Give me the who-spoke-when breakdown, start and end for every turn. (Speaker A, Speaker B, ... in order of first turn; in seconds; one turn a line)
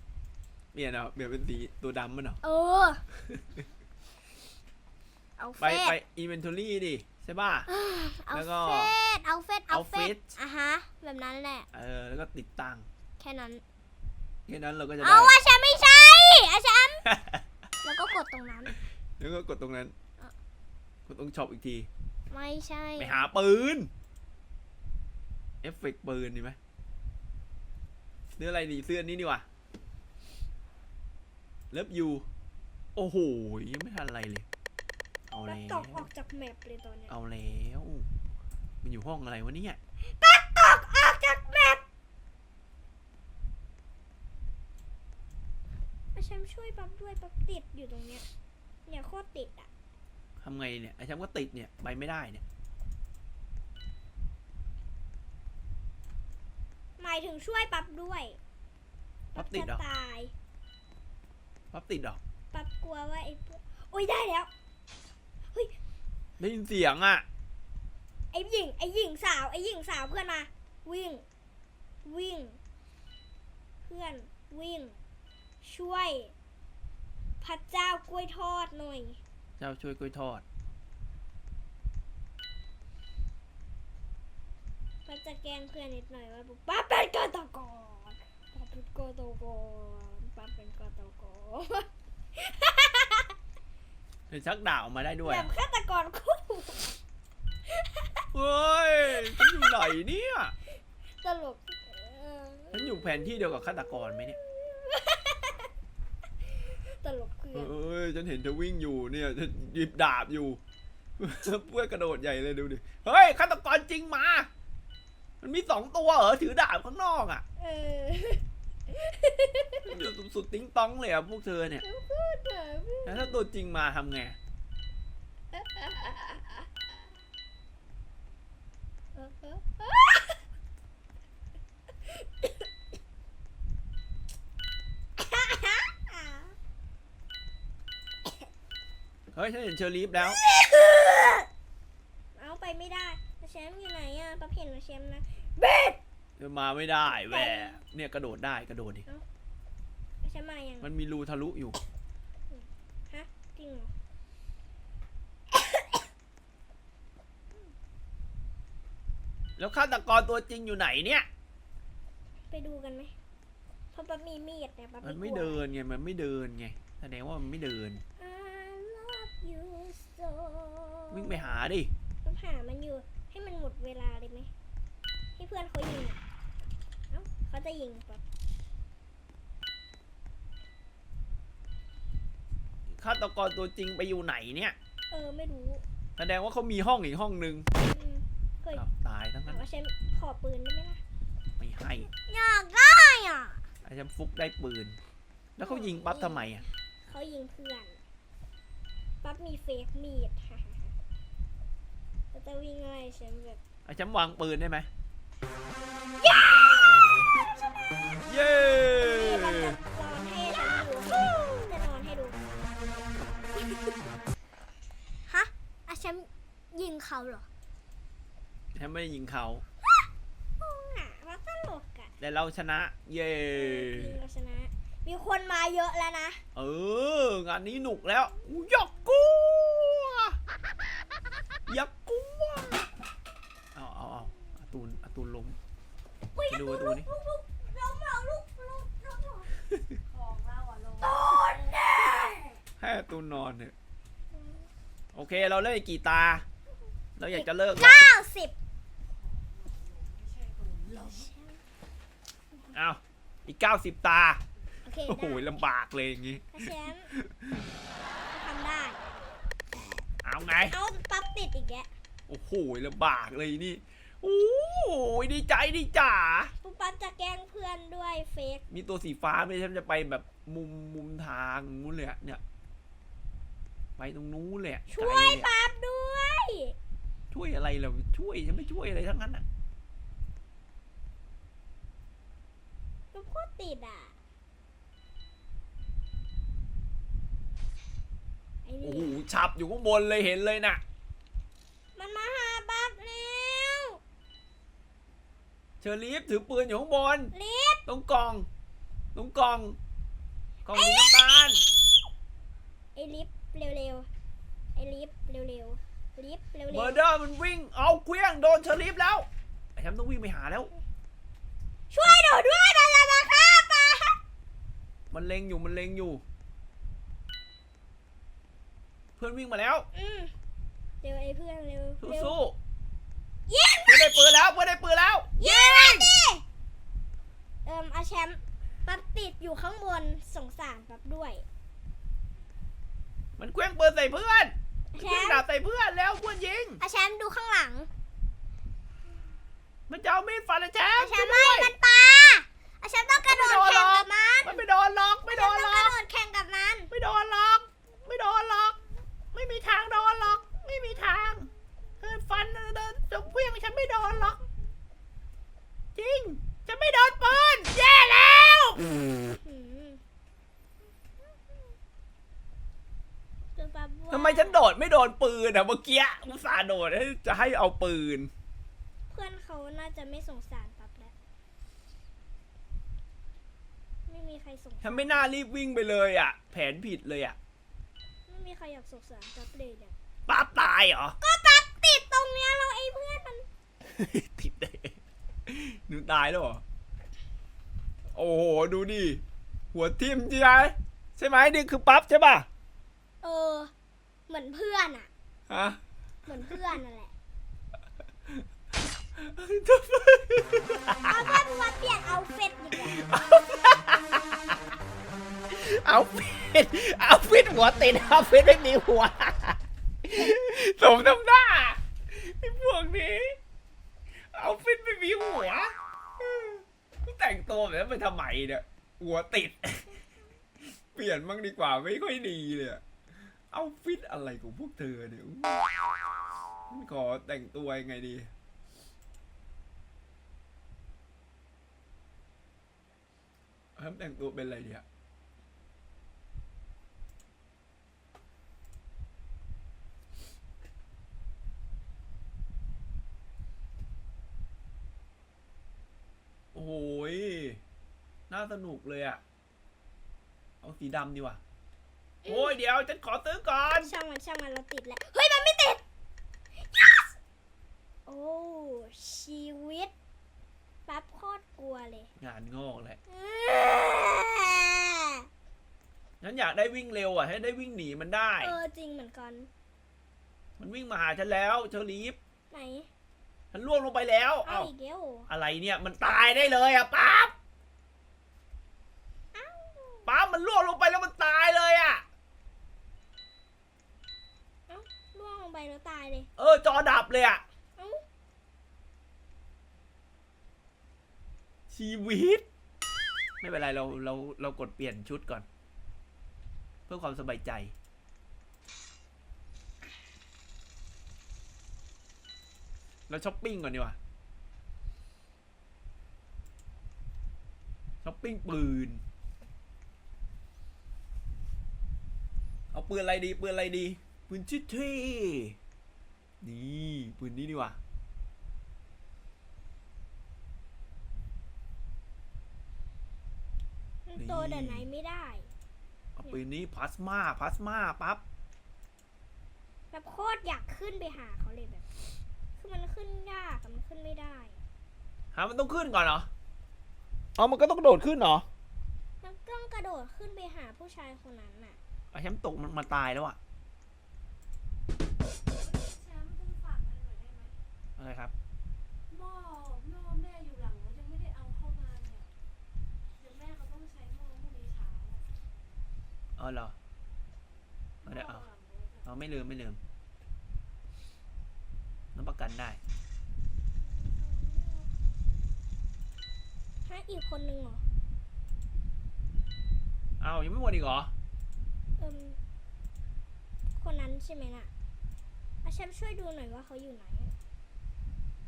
Speaker A: 0.7-2.4
Speaker B: 2.4-3.0
Speaker A: 3.3-3.6
Speaker B: 5.4-6.0
Speaker A: 5.6-7.7
Speaker B: 7.7-11.7
Speaker A: 8.3-8.9
Speaker A: 9.7-10.3
Speaker A: 11.7-12.9
Speaker B: 13.2-13.6
Speaker A: 14.5-15.4
Speaker B: 15.0-17.1
Speaker A: 17.1-17.4
Speaker B: 17.8-18.8
Speaker A: 19.2-19.9
Speaker A: 21.1-21.9
Speaker B: 22.3-23.2
Speaker A: 23.0-23.9
Speaker A: 25.6-26.6
Speaker A: 28.4-29.5
Speaker A: 31.7-32.3
Speaker A: 33.0-34.5
Speaker A: 35.3-36.1
Speaker B: 35.4-37.1
Speaker A: 37.1-38.1
Speaker A: 38.8-39.8
Speaker B: 40.0-41.8
Speaker B: 46.1-48.3
Speaker B: 48.9-49.7
Speaker A: 50.4-52.4
Speaker B: 57.0-58.4
Speaker B: 59.3-60.3
Speaker A: 59.4-59.8
Speaker A: 61.7-62.2
Speaker B: 62.5-64.5
Speaker A: 66.4-67.3
Speaker B: 68.3-71.2
Speaker B: 72.0-72.6
Speaker B: 73.8-75.0
Speaker B: 75.6-76.3
Speaker B: 77.4-79.2
Speaker A: 79.6-80.4
Speaker B: 85.0-93.3
Speaker A: 94.3-95.5
Speaker B: 95.2-96.9
Speaker B: 97.7-98.3
Speaker A: 98.3-100.5
Speaker B: 99.2-99.7
Speaker B: 101.2-103.1
Speaker A: 102.7-104.4
Speaker B: 104.4-105.7
Speaker B: 106.9-107.7
Speaker A: 107.5-110.6
Speaker A: 111.2-114.5
Speaker A: 115.4-117.4
Speaker B: 117.6-119.9
Speaker A: 119.9-121.8
Speaker B: 121.8-123.4
Speaker A: 123.0-124.4
Speaker B: 125.5-126.7
Speaker B: 129.2-130.4
Speaker B: 132.3-132.6
Speaker B: 135.2-136.5
Speaker A: 139.3-140.4
Speaker B: 140.2-141.5
Speaker B: 142.3-146.0
Speaker A: 146.4-149.1
Speaker B: 147.1-147.8
Speaker B: 150.2-150.9
Speaker A: 150.8-151.8
Speaker B: 152.5-153.9
Speaker B: 155.5-155.8
Speaker A: 159.6-161.3
Speaker B: 162.5-163.1
Speaker B: 163.9-165.6
Speaker A: 165.0-168.0
Speaker B: 168.2-171.6
Speaker A: 171.1-171.9
Speaker B: 172.2-174.5
Speaker B: 175.4-176.2
Speaker B: 177.1-178.2
Speaker A: 182.9-184.8
Speaker B: 185.1-185.8
Speaker A: 186.2-187.7
Speaker B: 187.8-188.8
Speaker A: 188.8-189.6
Speaker B: 189.5-191.0
Speaker A: 191.6-192.1
Speaker B: 192.2-193.6
Speaker A: 193.8-195.0
Speaker A: 195.6-196.7
Speaker B: 195.6-198.0
Speaker B: 199.2-200.9
Speaker B: 202.3-203.6
Speaker A: 203.9-204.9
Speaker B: 206.2-207.0
Speaker A: 208.2-209.8
Speaker B: 209.0-212.4
Speaker B: 213.6-214.0
Speaker B: 215.3-217.5
Speaker A: 218.7-219.6
Speaker B: 220.6-222.1
Speaker A: 222.2-224.2
Speaker B: 223.5-226.4
Speaker A: 226.6-230.4
Speaker A: 231.7-232.9
Speaker A: 233.8-235.6
Speaker B: 236.3-239.5
Speaker A: 236.5-237.1
Speaker C: 240.1-241.4
Speaker B: 241.0-242.6
Speaker A: 242.8-243.7
Speaker B: 244.3-244.6
Speaker A: 245.1-246.4
Speaker A: 247.2-248.0
Speaker B: 247.3-248.6
Speaker C: 249.1-251.3
Speaker B: 250.9-251.6
Speaker A: 252.7-254.4
Speaker B: 254.8-255.5
Speaker A: 255.1-257.7
Speaker B: 256.5-257.1
Speaker B: 258.3-259.0
Speaker A: 260.2-260.8
Speaker B: 260.7-261.9
Speaker A: 262.3-266.5
Speaker B: 266.6-268.6
Speaker A: 268.7-272.4
Speaker A: 274.0-275.5
Speaker B: 274.9-276.8
Speaker A: 277.3-279.4
Speaker B: 283.1-284.2
Speaker B: 288.6-289.1
Speaker A: 288.8-290.8
Speaker B: 292.0-294.0
Speaker A: 295.8-297.3
Speaker B: 297.3-297.8
Speaker A: 297.9-298.5
Speaker A: 299.1-299.8
Speaker A: 300.6-301.6
Speaker B: 300.7-301.1
Speaker B: 302.9-304.1
Speaker B: 304.8-307.0
Speaker A: 306.7-310.7
Speaker B: 311.9-314.2
Speaker A: 315.1-316.2
Speaker A: 319.2-319.9
Speaker B: 319.9-320.3
Speaker B: 321.0-322.4
Speaker A: 322.0-322.6
Speaker B: 323.5-324.2
Speaker A: 323.9-326.1
Speaker B: 325.4-326.4
Speaker B: 327.6-331.4
Speaker A: 333.4-336.8
Speaker B: 334.9-335.4
Speaker B: 336.8-337.9
Speaker A: 339.9-341.7
Speaker B: 341.0-344.6
Speaker A: 343.1-345.9
Speaker B: 345.3-346.9
Speaker A: 346.9-348.8
Speaker A: 349.3-351.5
Speaker A: 352.0-354.4
Speaker A: 355.9-358.9
Speaker B: 359.3-360.0
Speaker B: 363.6-364.6
Speaker A: 364.1-368.3
Speaker B: 369.1-371.1
Speaker B: 374.1-375.2
Speaker A: 374.8-377.4
Speaker B: 378.3-379.9
Speaker A: 380.3-381.2
Speaker B: 381.2-383.5
Speaker A: 383.8-386.6
Speaker A: 388.1-389.2
Speaker A: 389.7-392.5
Speaker B: 393.2-393.7
Speaker B: 394.3-395.1
Speaker A: 395.5-395.8
Speaker B: 396.3-397.1
Speaker A: 399.1-401.4
Speaker B: 401.1-403.0
Speaker A: 402.8-404.6
Speaker A: 405.5-413.4
Speaker A: 414.3-420.0
Speaker A: 420.9-422.8
Speaker A: 423.5-425.7
Speaker A: 426.7-428.3
Speaker A: 433.8-434.8
Speaker A: 446.5-447.6
Speaker A: 448.3-449.2
Speaker A: 450.6-451.4
Speaker B: 452.2-452.5
Speaker A: 452.3-453.9
Speaker B: 453.8-455.8
Speaker B: 456.6-457.1
Speaker B: 458.1-459.9
Speaker B: 460.9-462.1
Speaker A: 462.2-463.0
Speaker B: 463.1-465.3
Speaker A: 466.2-468.5
Speaker B: 468.4-469.5
Speaker A: 470.6-472.2
Speaker B: 472.5-472.9
Speaker A: 473.5-474.7
Speaker B: 474.4-475.3
Speaker A: 475.3-477.3
Speaker B: 479.3-480.1
Speaker A: 480.1-482.1
Speaker B: 484.7-486.3
Speaker A: 486.4-487.4
Speaker B: 487.8-488.0
Speaker A: 491.7-492.5
Speaker A: 493.4-495.5
Speaker A: 496.9-497.7
Speaker A: 503.1-504.0
Speaker A: 508.0-509.0
Speaker A: 512.7-515.6
Speaker A: 516.4-517.8
Speaker B: 524.1-525.5
Speaker A: 524.2-524.9
Speaker A: 526.2-528.2
Speaker B: 529.9-531.9
Speaker B: 532.6-534.6
Speaker A: 535.3-536.3
Speaker A: 537.4-538.5
Speaker B: 539.2-541.8
Speaker A: 542.1-543.4
Speaker C: 545.5-547.5
Speaker A: 548.0-548.3
Speaker C: 549.1-552.3
Speaker C: 553.2-555.3
Speaker A: 556.4-556.8
Speaker C: 558.0-559.1
Speaker A: 558.0-558.5
Speaker A: 559.0-559.8
Speaker A: 562.1-562.8
Speaker C: 563.8-565.4
Speaker B: 566.9-567.8
Speaker A: 570.2-571.1
Speaker B: 572.0-572.4
Speaker B: 573.8-574.7
Speaker B: 575.6-577.3